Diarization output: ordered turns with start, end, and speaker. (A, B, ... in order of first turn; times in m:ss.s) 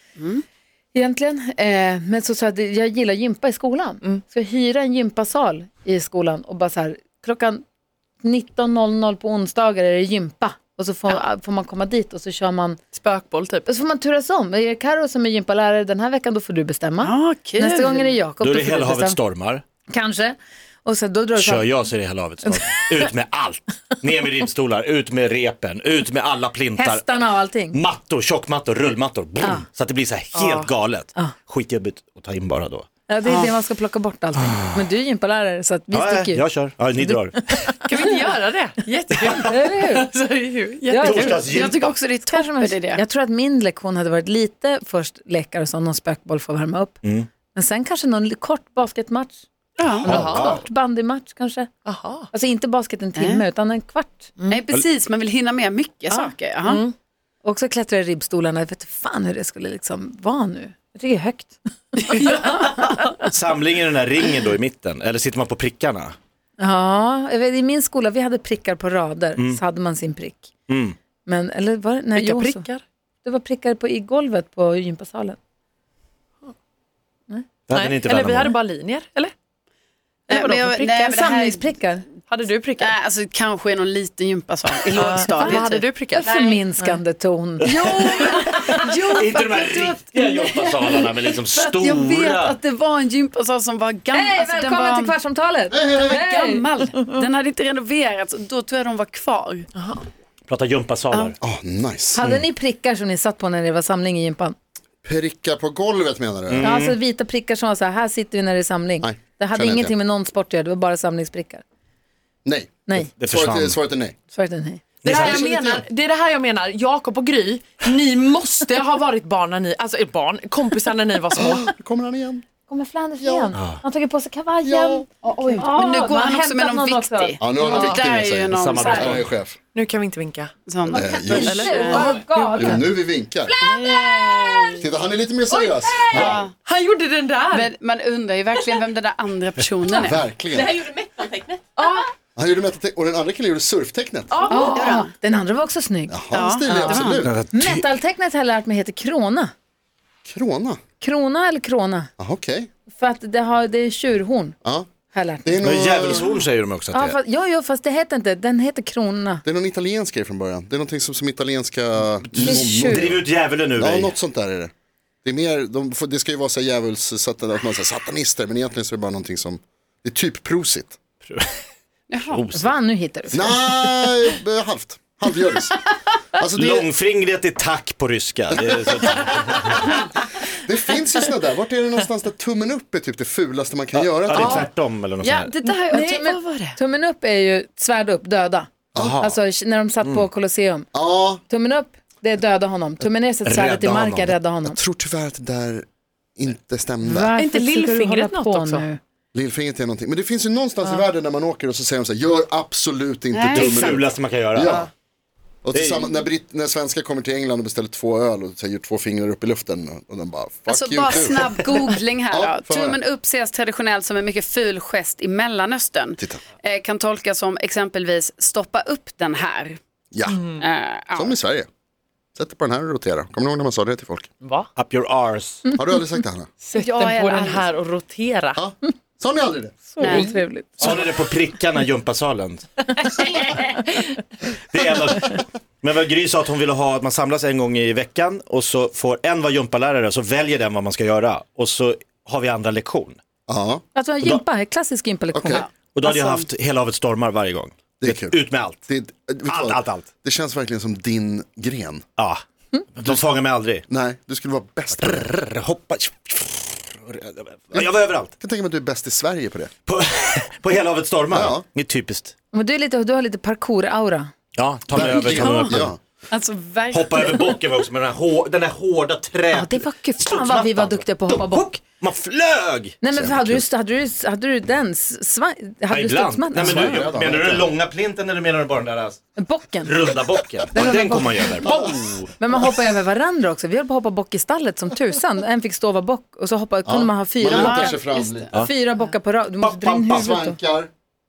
0:00.2-0:00.4 A
0:00.9-0:07.6 B
0:08.2-0:12.8 B
0:12.9-0:13.7 C
0:13.6-0:19.2 B
0:17.0-0:18.1 A
0:18.4-0:19.6 D
0:19.9-0:21.7 B
0:21.4-0:27.0 D
0:26.8-0:27.8 B
0:27.7-0:32.9 D
0:30.3-0:30.7 C
0:33.1-0:36.4 B
0:35.9-0:37.7 D
0:37.0-0:37.6 B
0:37.8-0:41.3 C
0:39.3-0:40.1 B
0:40.9-0:41.5 B
0:41.0-0:42.0 D
0:41.2-0:43.0 A
0:42.2-0:47.0 B
0:47.0-0:47.3 D
0:47.5-0:49.4 B
0:49.8-0:50.2 A
0:50.0-0:50.6 D
0:50.0-0:51.7 B
0:50.1-0:50.5 C
0:51.8-0:52.3 C
0:52.3-0:54.3 B
0:53.2-0:53.4 A
0:54.5-0:56.8 A
0:56.6-0:56.9 C
0:57.4-1:02.9 B
1:03.2-1:06.1 D
1:06.6-1:10.5 B
1:10.7-1:11.0 D
1:11.2-1:12.6 B
1:12.1-1:12.8 C
1:13.2-1:15.4 B
1:17.7-1:18.5 D
1:17.7-1:19.3 C
1:20.3-1:21.1 C
1:20.3-1:21.8 A
1:21.0-1:22.0 B
1:22.3-1:22.9 C
1:22.8-1:25.9 A
1:24.9-1:27.0 C
1:25.4-1:25.6 B
1:26.2-1:28.5 B
1:27.6-1:32.6 D
1:27.6-1:35.1 A
1:34.1-1:37.1 B
1:35.7-1:36.2 E
1:36.0-1:39.7 A
1:40.5-1:41.4 D
1:41.4-1:42.4 E
1:42.1-1:44.6 B
1:45.0-1:46.7 E
1:46.5-1:47.0 D
1:46.6-1:51.6 B
1:49.0-1:49.9 E
1:52.4-1:54.1 E
1:53.2-1:53.8 D
1:54.3-1:54.8 B
1:55.0-1:55.4 D
1:55.0-2:01.7 C
1:55.0-1:55.8 E
2:01.3-2:02.4 E
2:02.7-2:07.6 B
2:03.2-2:03.5 E
2:04.6-2:05.0 E
2:05.3-2:09.2 A
2:07.4-2:09.6 E
2:07.7-2:08.1 C
2:08.5-2:09.3 D
2:09.7-2:10.5 C
2:10.7-2:12.2 A
2:10.9-2:13.5 E
2:11.1-2:12.9 B
2:11.3-2:12.7 C
2:13.6-2:14.8 A
2:13.7-2:14.7 C
2:14.8-2:16.4 E
2:16.1-2:16.5 A
2:16.2-2:17.7 C
2:17.5-2:20.2 A
2:20.0-2:20.8 E
2:20.5-2:22.1 C
2:22.4-2:24.4 E
2:24.3-2:25.0 C
2:24.5-2:25.1 A
2:24.5-2:29.5 B
2:26.1-2:27.3 E
2:26.3-2:27.2 A
2:27.2-2:27.8 D
2:30.2-2:30.8 E
2:31.0-2:32.1 B
2:32.2-2:32.7 E
2:32.9-2:34.6 B
2:35.1-2:36.4 B
2:35.4-2:36.3 E
2:35.6-2:37.2 D
2:36.9-2:39.4 B
2:39.4-2:43.2 E
2:42.3-2:44.1 D
2:42.4-2:43.1 B
2:43.8-2:44.7 E
2:45.2-2:51.0 E
2:52.1-2:52.4 A
2:52.3-2:52.7 D
2:52.5-2:53.5 B
2:53.3-2:55.8 E
2:56.3-2:56.9 E
2:56.5-2:59.9 D
2:58.5-3:04.7 E
3:03.9-3:05.5 D
3:05.2-3:06.8 A
3:05.9-3:06.2 C
3:05.9-3:10.9 B
3:08.9-3:09.2 E
3:09.0-3:09.4 D
3:10.9-3:11.4 E
3:11.5-3:14.8 B
3:13.4-3:14.3 D
3:14.6-3:15.8 E
3:16.4-3:17.3 E
3:17.0-3:19.0 B
3:17.4-3:18.8 C
3:19.3-3:24.9 E
3:23.3-3:23.8 A
3:23.5-3:24.9 D
3:25.6-3:31.7 E
3:25.7-3:26.2 D
3:30.7-3:39.8 A
3:32.3-3:33.0 E
3:40.1-3:40.4 E
3:40.3-3:40.6 C
3:40.6-3:41.3 A
3:41.1-3:41.7 E
3:42.4-3:44.3 E
3:44.4-3:44.7 C
3:44.8-3:45.6 D
3:45.7-3:46.5 E
3:46.7-3:48.6 C
3:46.7-3:47.7 A
3:48.6-3:49.8 E
3:50.0-3:51.0 B
3:50.0-3:50.3 A
3:50.8-3:53.4 D
3:53.4-3:54.1 C
3:54.7-4:03.2 D
4:03.5-4:03.8 E
4:03.9-4:05.6 B
4:05.3-4:05.6 E
4:05.9-4:08.8 D
4:06.0-4:06.4 A
4:08.0-4:12.0 E
4:09.5-4:10.1 D
4:12.9-4:13.8 D
4:13.9-4:15.3 E
4:14.9-4:18.3 D
4:17.7-4:19.7 E
4:19.8-4:22.3 D
4:21.3-4:21.6 E
4:22.5-4:24.3 B
4:24.6-4:25.9 D
4:24.9-4:26.0 E
4:25.2-4:25.8 A
4:26.3-4:27.5 A
4:26.9-4:33.0 D
4:29.5-4:31.8 B
4:33.0-4:37.0 B
4:33.1-4:33.6 E
4:35.9-4:39.2 D
4:36.6-4:37.7 E
4:39.4-4:39.9 B
4:39.8-4:42.3 D
4:40.7-4:41.7 B
4:41.6-4:41.9 E
4:42.4-4:48.0 B
4:46.8-4:48.5 E
4:47.5-4:48.6 A
4:48.5-4:50.6 B
4:49.6-4:50.4 D
4:50.1-4:50.9 E